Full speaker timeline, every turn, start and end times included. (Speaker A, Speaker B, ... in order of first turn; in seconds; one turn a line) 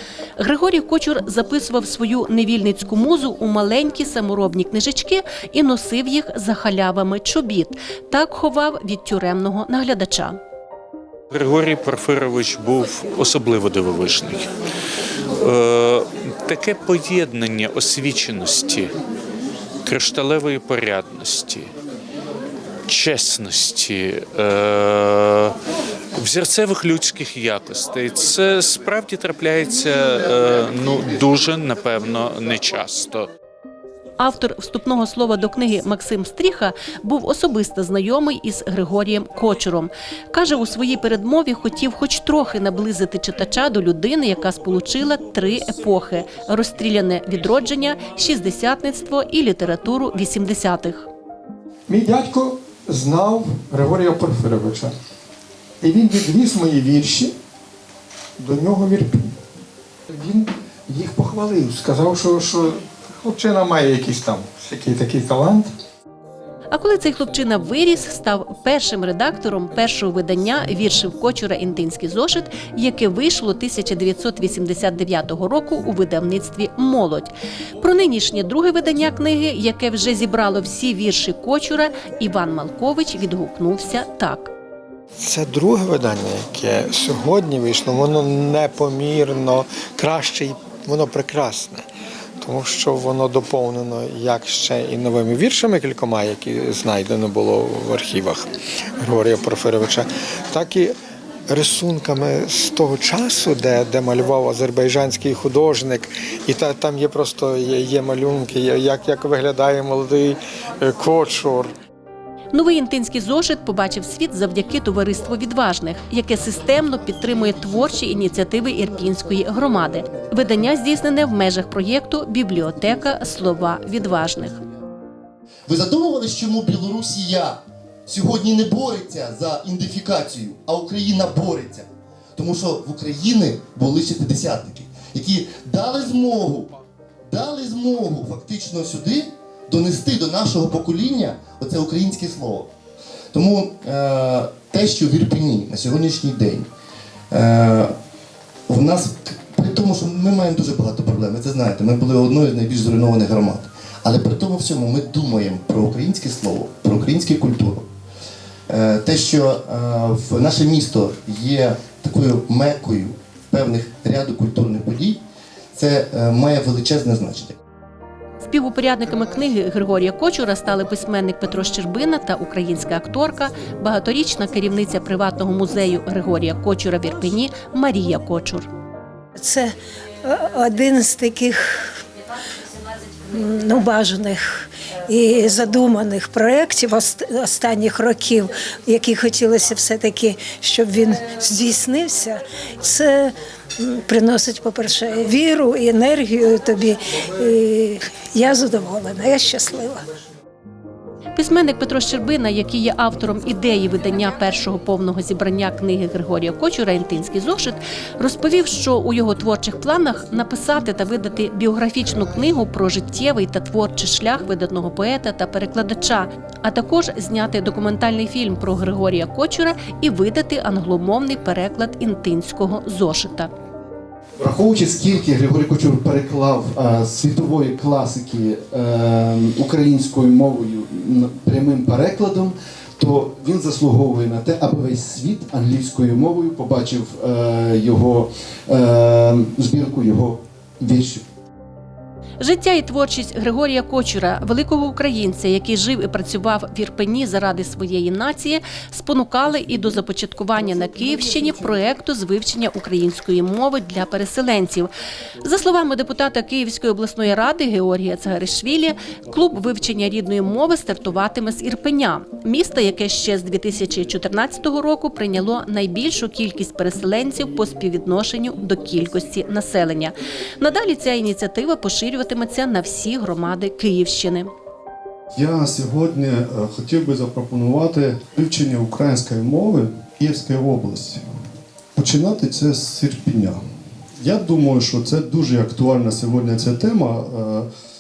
Speaker A: 0.4-10.4
Speaker B: 11.3-14.5
Speaker B: 15.4-18.9
Speaker B: 19.9-21.7
Speaker B: 22.9-25.6
Speaker B: 26.2-33.3
Speaker A: 34.2-51.1
Speaker C: 51.9-54.9
Speaker C: 55.8-57.4
Speaker C: 58.4-59.4
Speaker C: 60.1-65.7
Speaker A: 66.7-84.5
Speaker C: 85.2-91.8
Speaker C: 92.4-98.5
Speaker C: 99.0-101.0
Speaker C: 101.5-111.7
Speaker A: 112.5-124.6
Speaker D: 116.9-120.7
Speaker D: 125.7-142.7
Speaker D: 143.3-146.7
Speaker D: 147.3-147.9
Speaker D: 148.7-157.8
Speaker D: 158.7-165.2
Speaker D: 165.8-167.6
Speaker A: 168.4-178.7
Speaker E: 179.4-179.7
Speaker E: 180.6-181.6
Speaker E: 183.4-184.4
Speaker E: 185.2-200.0
Speaker A: 201.4-223.5
Speaker F: 224.4-241.2
Speaker A: 242.4-254.9
Speaker A: 255.4-274.5
Speaker G: 275.4-281.2
Speaker G: 281.9-283.6
Speaker G: 284.2-287.7